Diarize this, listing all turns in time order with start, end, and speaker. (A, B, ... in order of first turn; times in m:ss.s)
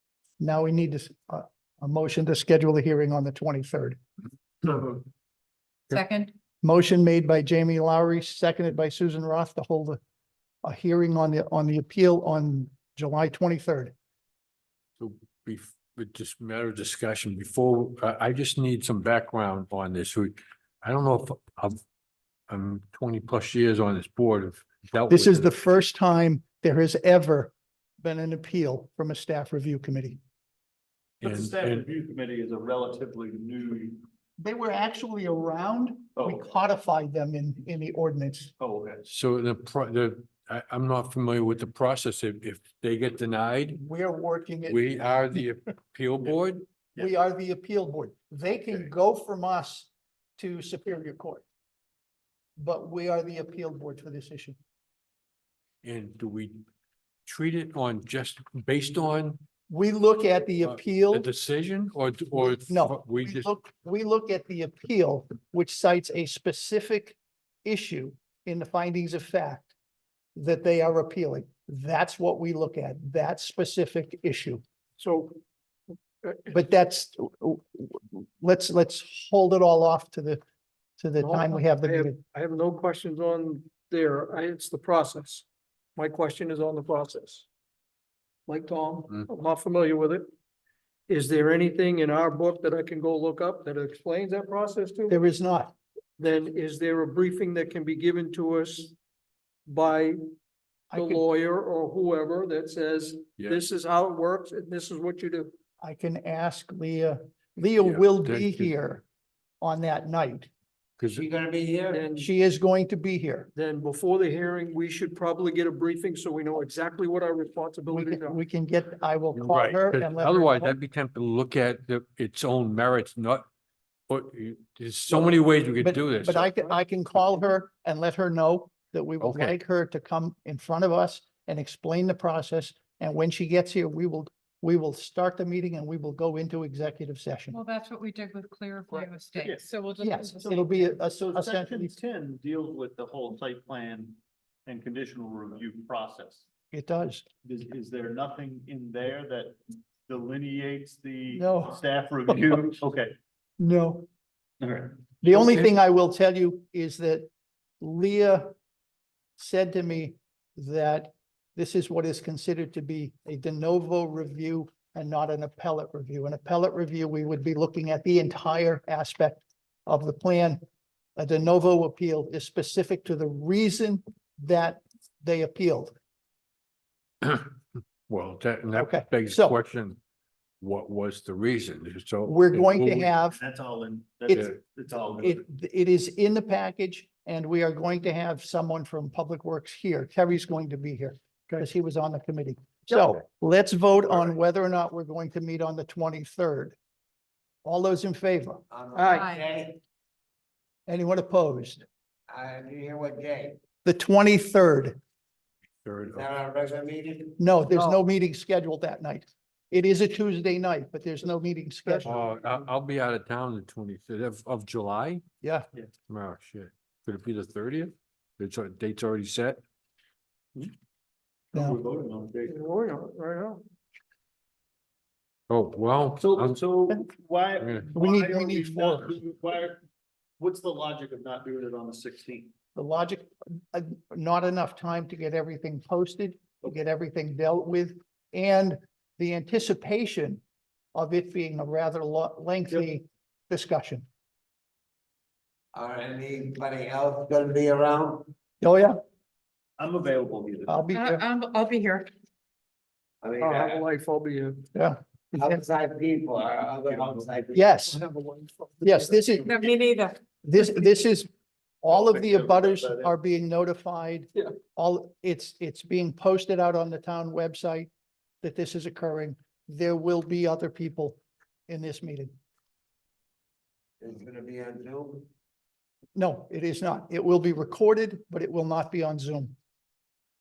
0:00.4-0:04.0 A
0:04.6-0:05.0 A
0:05.9-0:06.3 B
0:06.6-0:10.0 A
0:10.6-0:13.9 A
0:15.0-0:21.8 C
0:22.5-0:25.5 C
0:25.1-0:30.2 A
0:31.2-0:31.8 C
0:31.2-0:34.0 D
0:34.4-0:38.5 A
0:36.2-0:36.5 D
0:38.6-0:39.0 D
0:39.0-0:43.8 C
0:43.7-0:44.8 A
0:44.7-0:46.6 C
0:47.0-0:51.4 A
0:52.6-0:54.6 A
0:55.8-0:56.6 C
0:57.3-0:59.4 C
0:59.7-1:01.3 A
1:00.6-1:03.5 C
1:02.6-1:09.7 A
1:10.3-1:14.6 A
1:15.0-1:15.4 E
1:16.2-1:16.6 E
1:16.5-1:20.4 A
1:21.0-1:22.2 A
1:21.2-1:25.4 E
1:26.0-1:27.4 E
1:28.5-1:30.3 E
1:31.1-1:35.2 E
1:35.1-1:35.8 A
1:36.2-1:38.9 E
1:39.7-1:40.2 E
1:40.9-1:45.5 E
1:40.9-1:41.2 A
1:45.8-1:49.0 A
1:47.8-1:48.7 C
1:49.6-1:50.5 A
1:51.0-1:51.2 C
1:51.2-1:52.0 F
1:51.9-1:52.3 E
1:52.2-1:53.5 A
1:53.5-1:58.4 E
1:57.9-2:00.8 A
1:59.3-2:03.5 C
2:04.1-2:06.5 C
2:05.1-2:17.6 A
2:09.2-2:09.6 C
2:17.5-2:21.0 B
2:18.9-2:19.7 D
2:20.0-2:21.9 A
2:21.0-2:26.4 D
2:26.7-2:27.2 A
2:27.4-2:33.1 D
2:31.3-2:31.8 A
2:33.6-2:34.1 A
2:34.6-2:35.4 D
2:35.2-2:37.3 A
2:37.8-2:38.5 A
2:39.4-2:50.6 A
2:51.2-2:55.9 A
2:57.2-3:00.0 C
2:58.8-2:59.6 A
3:00.6-3:03.1 C
3:02.2-3:03.4 A
3:03.3-3:05.4 D
3:05.2-3:16.8 A
3:17.6-3:18.6 A
3:18.7-3:19.8 F
3:18.9-3:19.2 E
3:19.1-3:19.4 B
3:20.9-3:21.8 A
3:22.3-3:23.6 F
3:23.8-3:25.0 A
3:25.8-3:26.3 C
3:26.1-3:27.4 F
3:27.4-3:32.2 A
3:27.7-3:28.0 E
3:31.8-3:32.6 E
3:32.0-3:35.2 C
3:36.1-3:39.6 C
3:41.5-3:42.6 D
3:42.4-3:43.6 E
3:45.5-3:46.6 C
3:46.2-3:49.8 D
3:47.6-3:47.8 C
3:47.9-3:49.1 A
3:50.4-3:52.5 D
3:52.8-4:00.4 A
4:00.9-4:04.1 A
4:05.7-4:08.3 F
4:08.6-4:09.0 A
4:09.8-4:10.8 D
4:10.7-4:11.2 A
4:10.9-4:12.1 B
4:13.2-4:13.9 F
4:13.4-4:14.6 E
4:14.7-4:15.6 A
4:15.3-4:17.7 F
4:16.8-4:17.3 D
4:17.5-4:18.0 A
4:17.9-4:19.3 E
4:18.8-4:19.6 A
4:19.4-4:20.2 B
4:20.4-4:21.3 A
4:21.8-4:27.9 A
4:21.9-4:23.1 D
4:28.4-4:32.3 A
4:34.0-4:35.3 F
4:36.1-4:39.6 A